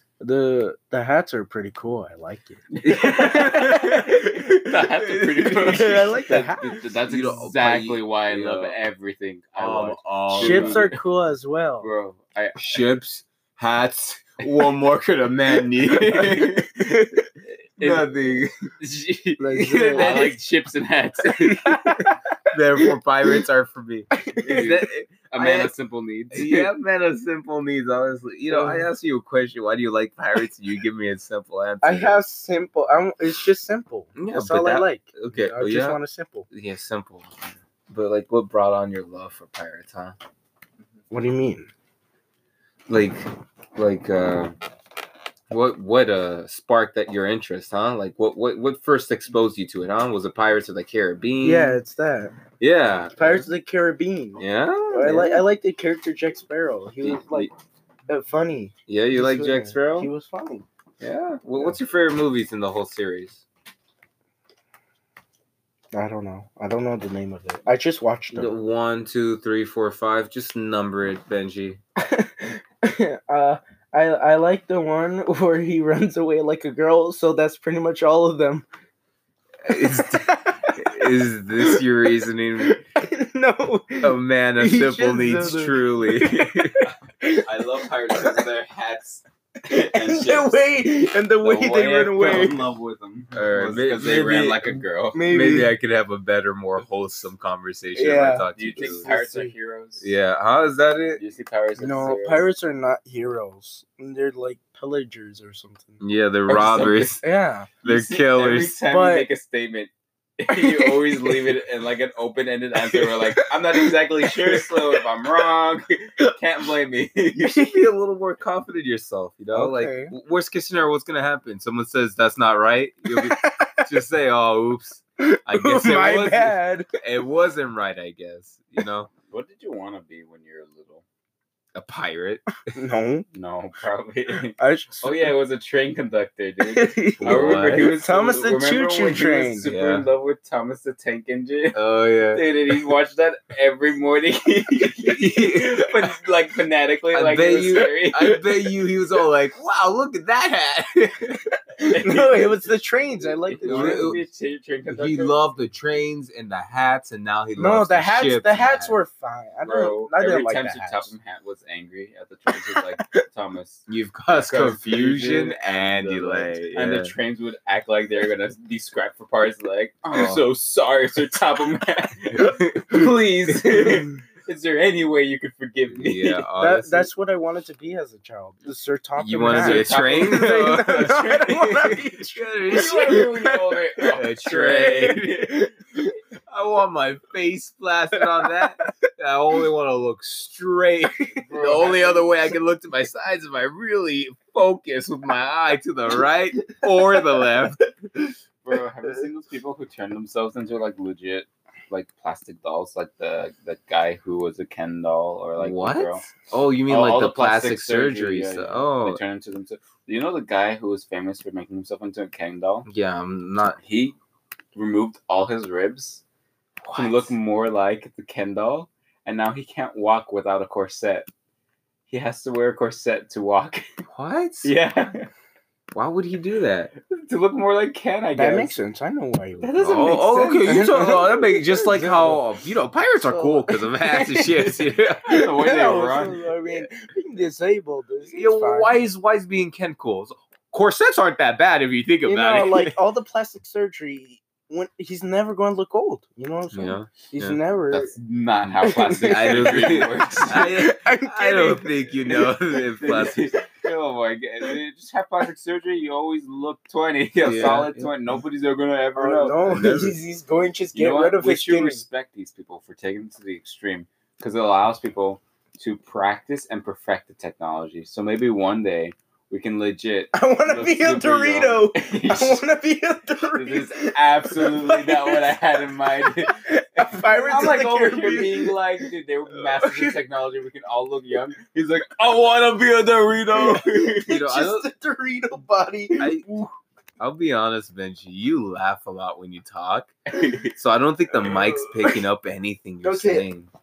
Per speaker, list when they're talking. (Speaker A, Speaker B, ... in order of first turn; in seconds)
Speaker A: 0.2-4.2, 5.5-6.8, 10.3-11.9, 16.8-17.3, 19.4-20.4, 21.4-22.3, 24.1-24.7, 28.5-28.9, 31.8-36.5, 41.1-41.7, 51.4-52.4, 53.2-57.5, 58.1-60.6, 65.9-68.5, 72.0-78.7, 79.7-81.8, 83.0-87.4, 89.7-92.7, 95.1-95.7, 98.0-99.5, 101.8-106.0, 107.2-107.7, 108.8-109.3, 110.5-111.5, 112.8-115.0, 119.5-120.1, 123.1-123.9, 125.2-126.9, 132.7-133.2, 134.3-135.3, 136.6-139.7, 151.8-154.2, 157.6-161.1, 162.7-163.2, 173.7-174.2, 176.6-185.7, 228.3-230.1, 230.6-232.4, 233.2-239.0, 242.3-248.1, 248.8-252.1, 259.2-262.0, 270.3-275.6, 276.2-278.8, 279.7-280.2, 283.5-286.7, 291.4-292.2, 293.0-293.5
Speaker B: 2.7-11.0, 11.8-12.6, 16.0-16.7, 17.4-21.9, 24.4-26.7, 57.1-57.5, 87.2-90.8, 91.4-95.2, 98.5-100.1, 101.2-102.5, 106.5-107.2, 107.8-117.6, 129.3-131.0, 133.3-148.7, 151.9-155.4, 159.6-176.4, 179.5-181.2, 182.7-185.7, 191.4-192.4, 198.6-206.3, 206.9-212.9, 213.8-214.2, 214.8-216.2, 216.9-221.3, 222.1-223.8, 224.6-225.3, 226.9-228.8, 229.6-231.3, 235.3-236.9, 247.9-250.9, 252.2-259.9, 260.9-272.6, 273.5-284.3, 290.3-290.7
Speaker C: 2.8-5.9, 7.0-8.8, 9.6-10.9, 12.6-16.9, 17.8-18.5, 19.5-20.4, 22.5-25.7, 26.3-32.2, 34.2-36.0, 36.5-37.3, 37.9-40.2, 42.9-44.5, 45.5-51.8, 52.6-53.5, 54.4-55.4, 58.9-60.1, 61.0-63.4, 68.3-71.8, 79.7-82.8, 84.0-86.9, 93.3-94.7, 95.3-99.1, 100.0-101.2, 106.0-107.2, 107.8-108.8, 117.4-129.1, 131.8-132.4, 137.2-137.9, 139.7-140.1, 141.7-142.4, 145.1-145.9, 147.1-151.4, 153.6-154.2, 154.9-159.0, 163.9-167.1, 170.1-170.5, 172.3-173.0, 175.9-177.1, 179.2-183.3, 184.1-185.5, 186.5-197.8, 205.6-209.2, 212.9-213.8, 216.8-217.3, 224.1-224.7, 225.9-226.9, 229.8-235.3, 238.3-242.9, 246.7-247.6, 249.1-253.5, 257.4-258.1, 259.7-260.2, 284.3-284.9, 286.2-286.5, 287.2-290.1, 290.7-293.7